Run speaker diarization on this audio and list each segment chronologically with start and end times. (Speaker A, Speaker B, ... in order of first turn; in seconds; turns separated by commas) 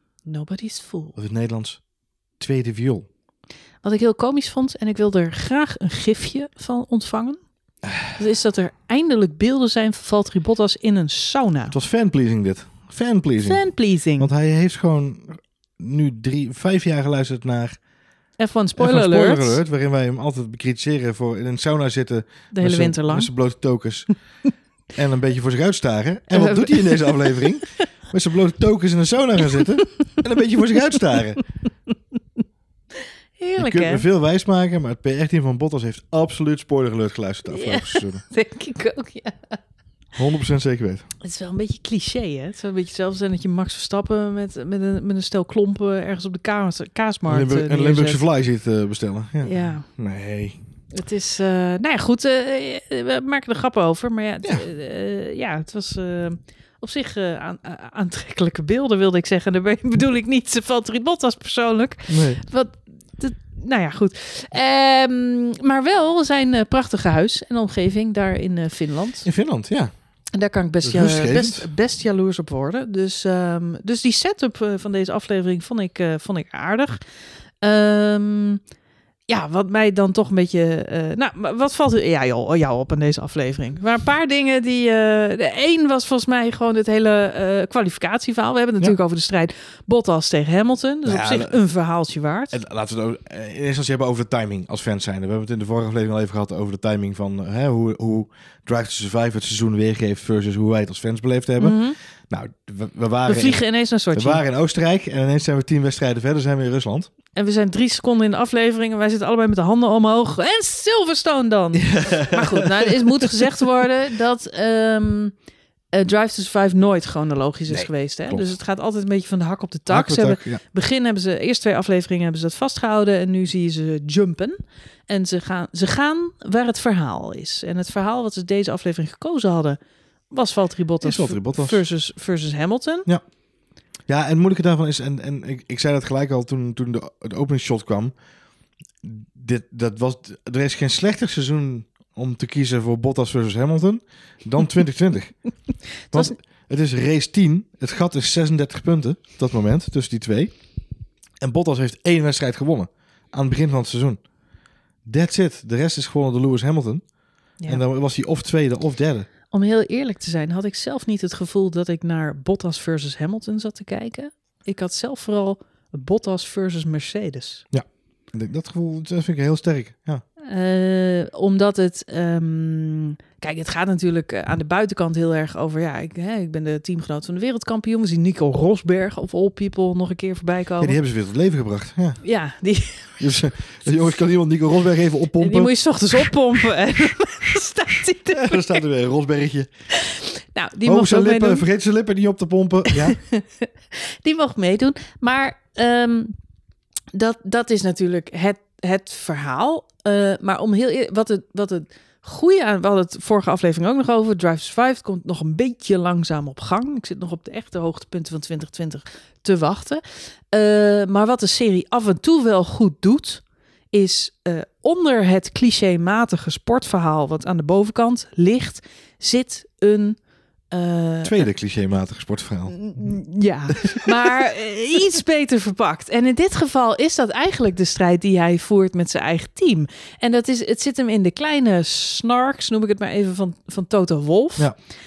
Speaker A: 0.3-1.2, Speaker B: 1.2-1.8, Speaker B: 2.4-3.1, Speaker A: 3.8-7.4, Speaker A: 8.1-11.7, Speaker B: 11.7-13.7, Speaker A: 13.4-14.3, Speaker B: 14.2-17.8, Speaker A: 18.4-19.6, Speaker B: 18.8-24.1, Speaker A: 22.5-23.3, Speaker B: 24.9-31.4, Speaker A: 26.3-27.7, Speaker A: 33.4-34.0, Speaker B: 33.6-38.2, Speaker A: 37.5-39.6, Speaker B: 40.2-41.1, Speaker A: 41.2-48.2, Speaker B: 47.3-50.6, Speaker A: 49.4-49.9, Speaker A: 50.9-69.3, Speaker B: 62.1-62.4, Speaker B: 69.2-69.9, Speaker A: 70.3-77.0, Speaker B: 70.8-71.7, Speaker A: 77.6-78.6, Speaker A: 79.3-92.6, Speaker B: 91.0-91.6, Speaker B: 92.5-103.6, Speaker A: 101.6-102.0, Speaker A: 103.3-104.4, Speaker B: 104.1-107.1, Speaker A: 107.3-115.3, Speaker B: 111.8-113.3, Speaker A: 115.9-129.8, Speaker B: 117.7-118.6, Speaker B: 119.9-120.6, Speaker A: 130.3-133.1, Speaker B: 131.0-131.8, Speaker B: 134.1-138.1, Speaker B: 139.0-145.4, Speaker A: 146.1-146.3, Speaker B: 146.1-150.6, Speaker B: 151.4-154.2, Speaker B: 155.1-157.1, Speaker B: 157.7-159.3, Speaker A: 159.5-167.7, Speaker B: 167.7-170.2, Speaker A: 170.4-181.0, Speaker B: 180.8-182.2, Speaker A: 182.2-183.3, Speaker B: 183.2-185.7, Speaker A: 185.4-188.8, Speaker B: 188.3-189.7, Speaker A: 189.9-191.7, Speaker B: 190.9-193.2, Speaker A: 193.0-196.3, Speaker A: 197.1-221.5, Speaker B: 221.2-223.2, Speaker A: 222.7-234.7